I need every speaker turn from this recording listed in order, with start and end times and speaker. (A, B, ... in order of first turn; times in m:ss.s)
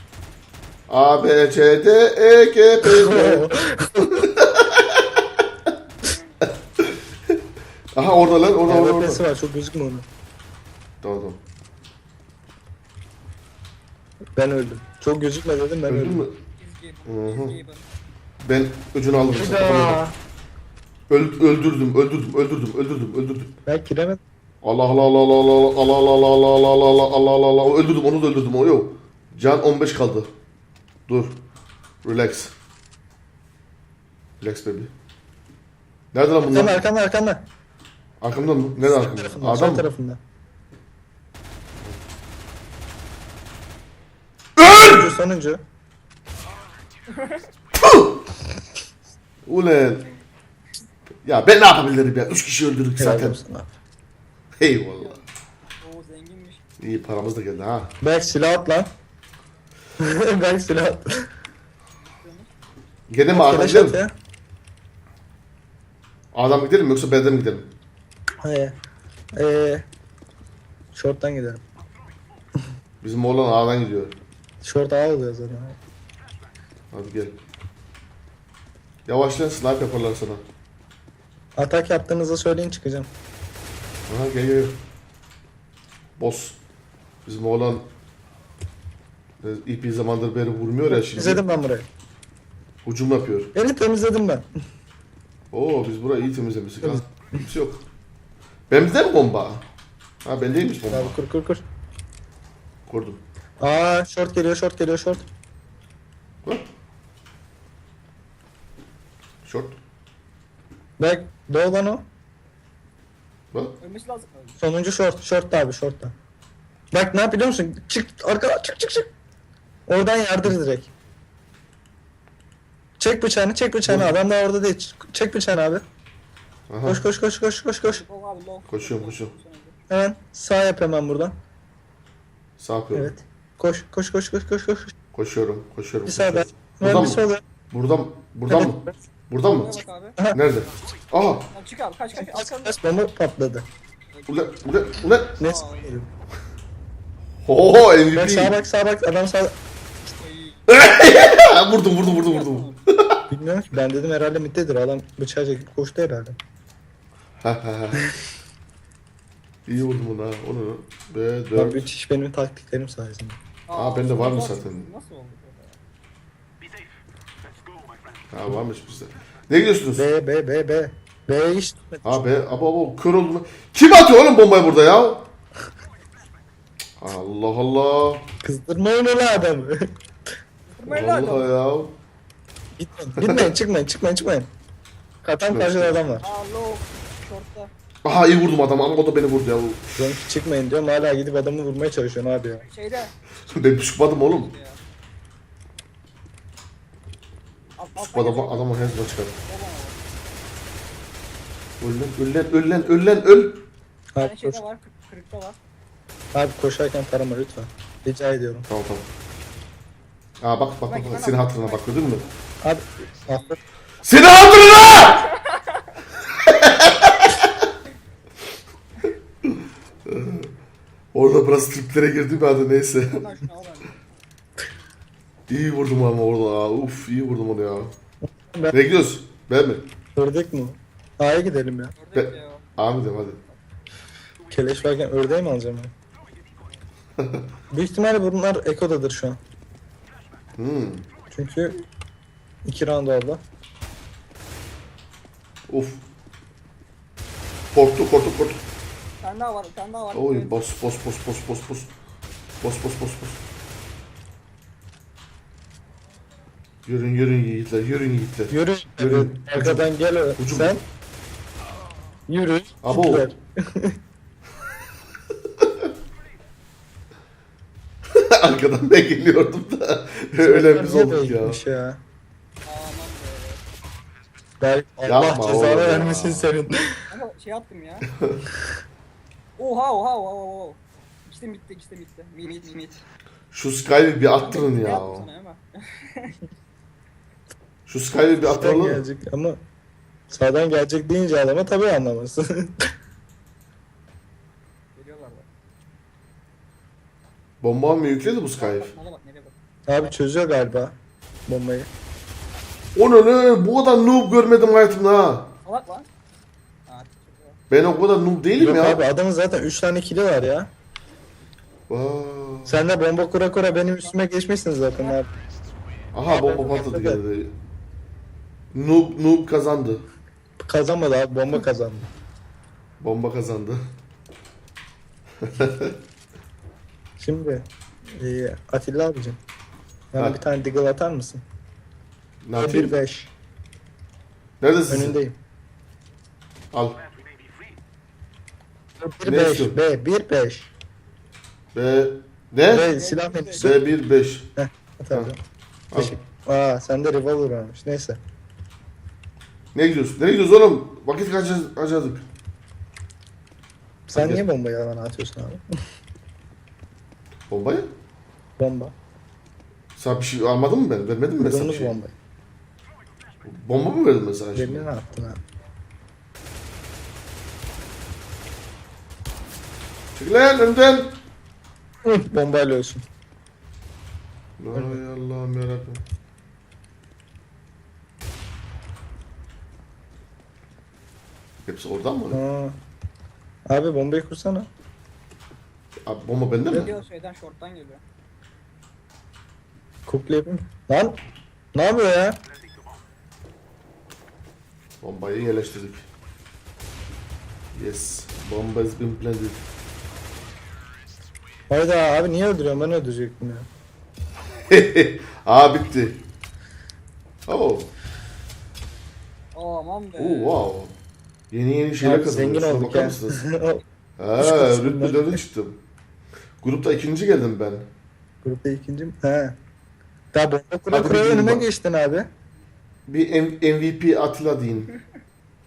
0:00.9-0:03.5 A
0:02.8-0:04.2 B
0:04.0-0:05.0 A
0:06.0-0:06.5 C
0:08.0-0:09.2 A
0:08.6-0:10.1 B
0:11.0-0:11.4 A
0:14.4-0:16.2 B
0:15.9-0:16.4 A
0:16.5-0:17.8 C
0:17.0-0:17.6 A
0:18.4-0:20.0 A
0:19.3-0:20.2 B
0:21.1-0:23.5 A
0:23.6-0:24.2 B
0:24.6-0:30.3 A
0:31.1-0:31.4 A
0:32.0-0:32.5 A
0:34.4-0:34.9 A
0:36.1-0:36.8 A
0:36.5-0:37.5 B
0:38.2-0:39.9 A
0:38.8-0:40.2 B
0:44.6-0:45.1 A
0:44.6-0:45.6 B
0:47.1-0:47.5 C
0:47.8-0:48.1 A
0:49.4-0:50.0 A
0:51.2-0:53.4 A
0:53.0-0:53.8 B
0:54.6-0:55.2 A
0:55.0-0:55.3 C
0:55.8-0:56.6 C
0:56.8-0:57.9 A
0:58.0-0:58.9 B
1:00.0-1:01.3 B
1:02.0-1:02.5 C
1:03.1-1:04.0 A
1:03.3-1:04.1 B
1:06.3-1:07.7 A
1:08.4-1:08.8 B
1:09.4-1:09.9 B
1:10.9-1:11.6 B
1:13.0-1:14.2 A
1:14.6-1:15.8 B
1:16.9-1:17.4 A
1:19.0-1:20.4 A
1:21.6-1:23.1 B
1:24.1-1:24.8 A
1:26.2-1:26.6 A
1:27.2-1:27.9 A
1:29.4-1:31.4 A
1:30.9-1:31.9 B
1:32.8-1:33.5 A
1:33.5-1:34.5 B
1:35.5-1:37.8 A
1:36.8-1:37.4 B
1:38.7-1:39.6 A
1:40.2-1:41.2 A
1:40.8-1:41.6 B
1:42.9-1:43.2 A
1:43.6-1:45.3 B
1:46.4-1:46.7 A
1:49.4-1:49.8 A
1:51.0-1:52.0 B
1:53.8-1:54.6 C
1:54.6-1:56.1 B
1:56.9-1:59.1 B
1:59.9-2:00.9 B
2:03.0-2:05.8 B
2:03.8-2:04.2 A
2:06.7-2:07.0 A
2:06.8-2:08.0 B
2:07.8-2:09.8 C
2:08.7-2:09.3 A
2:09.9-2:11.4 B
2:12.6-2:13.1 A
2:12.9-2:14.9 B
2:15.1-2:19.7 A
2:16.0-2:17.4 B
2:18.5-2:19.0 B
2:19.6-2:20.2 C
2:20.3-2:21.5 A
2:21.5-2:22.8 C
2:22.1-2:23.6 B
2:24.1-2:24.6 C
2:24.3-2:25.3 A
2:25.2-2:25.9 C
2:25.4-2:26.1 B
2:27.4-2:28.6 A
2:28.1-2:29.6 B
2:30.1-2:30.6 C
2:30.7-2:33.1 A
2:31.9-2:32.8 C
2:33.3-2:36.4 B
2:37.4-2:38.0 A
2:39.6-2:41.9 A
2:41.5-2:43.4 B
2:43.7-2:45.8 C
2:43.7-2:44.9 A
2:48.3-2:50.1 A
2:50.0-2:52.2 B
2:52.0-2:55.3 A
2:57.0-2:58.3 A
2:58.4-2:59.9 B
3:00.7-3:01.5 C
3:00.9-3:02.0 A
3:02.8-3:04.5 B
3:03.2-3:03.5 A
3:05.2-3:06.3 B
3:05.5-3:06.2 A
3:06.2-3:07.7 C
3:08.0-3:10.0 A
3:10.0-3:12.6 B
3:12.6-3:13.2 C
3:13.4-3:14.5 A
3:14.1-3:14.8 C
3:17.8-3:20.1 C
3:18.0-3:19.3 A
3:21.8-3:23.6 A
3:24.1-3:24.6 B
3:24.2-3:25.6 C
3:26.3-3:28.7 B
3:28.7-3:29.1 A
3:30.4-3:32.2 A
3:30.9-3:32.4 C
3:32.6-3:33.6 B
3:33.3-3:33.6 C
3:34.0-3:35.2 A
3:35.5-3:35.8 C
3:36.4-3:37.5 A
3:40.0-3:40.5 A
3:41.1-3:43.2 A
3:43.1-3:44.0 C
3:45.5-3:47.9 A
3:48.2-3:48.8 B
3:48.7-3:49.9 A
3:50.1-3:51.9 B
3:52.0-3:52.7 C
3:52.1-3:53.4 A
3:54.5-3:55.9 B
3:57.2-3:57.5 A
3:57.7-3:59.4 B
4:00.6-4:01.0 A
4:01.3-4:01.8 B
4:02.6-4:03.4 B
4:05.7-4:06.0 A
4:07.7-4:08.6 A
4:09.2-4:10.5 C
4:10.1-4:11.9 A
4:12.6-4:13.4 A
4:16.9-4:20.8 A
4:18.5-4:20.8 B
4:22.3-4:24.0 B
4:22.8-4:23.2 A
4:28.1-4:31.6 A
4:30.4-4:32.0 B
4:32.6-4:33.6 C
4:34.6-4:37.0 B
4:35.0-4:36.5 A
4:37.1-4:38.1 C
4:39.6-4:43.0 C
4:43.5-4:45.3 A
4:44.4-4:46.4 C
4:47.9-4:49.0 A
4:48.5-4:49.6 B
4:50.3-4:52.8 B
4:55.0-4:55.5 C
4:57.6-4:58.9 A
4:58.5-4:59.5 C
4:59.9-5:01.9 B
5:03.0-5:05.5 A
5:05.6-5:06.1 C
5:06.9-5:07.6 C
5:07.7-5:09.0 A
5:08.6-5:10.7 B
5:11.9-5:12.9 A
5:12.6-5:15.3 B
5:13.7-5:14.2 C
5:16.1-5:17.5 A
5:16.3-5:17.2 B
5:18.7-5:20.0 A
5:20.6-5:22.1 B
5:23.0-5:23.8 A
5:25.4-5:26.0 A
5:27.2-5:29.4 B
5:30.1-5:31.4 B
5:30.1-5:30.4 A
5:32.4-5:33.0 A
5:32.6-5:33.3 B
5:34.6-5:35.2 A
5:34.9-5:35.4 B
5:36.7-5:37.0 A
5:39.0-5:40.7 B
5:39.2-5:39.8 A
5:41.7-5:42.9 A
5:42.7-5:43.8 B
5:42.8-5:43.7 C
5:43.6-5:44.5 A
5:44.6-5:45.4 B
5:45.9-5:46.2 A
5:45.9-5:48.2 B
5:49.7-5:52.2 A
5:54.1-5:55.6 B
5:54.1-5:54.4 A
5:57.5-5:57.9 A
5:58.6-5:58.9 B
6:00.0-6:02.0 A
6:01.4-6:02.1 B
6:03.4-6:04.9 A
6:04.5-6:05.4 B
6:10.1-6:11.2 A
6:12.0-6:13.0 B
6:14.6-6:16.0 A
6:21.6-6:22.4 A
6:22.3-6:22.8 B
6:23.7-6:24.7 B
6:26.1-6:26.9 A
6:26.7-6:28.0 C
6:30.1-6:31.2 B
6:31.7-6:32.4 B
6:35.0-6:36.1 A
6:37.7-6:39.6 A
6:41.7-6:43.7 B
6:44.7-6:46.2 A
6:47.5-6:47.9 A
6:49.6-6:50.6 C
6:50.2-6:50.9 A
6:51.5-6:53.4 A
6:52.0-6:53.8 B
6:54.2-6:55.8 A
6:54.4-6:55.4 B
6:56.6-6:57.9 A
6:58.4-6:59.6 B
7:00.3-7:02.3 B
7:00.9-7:01.6 A
7:03.1-7:04.9 A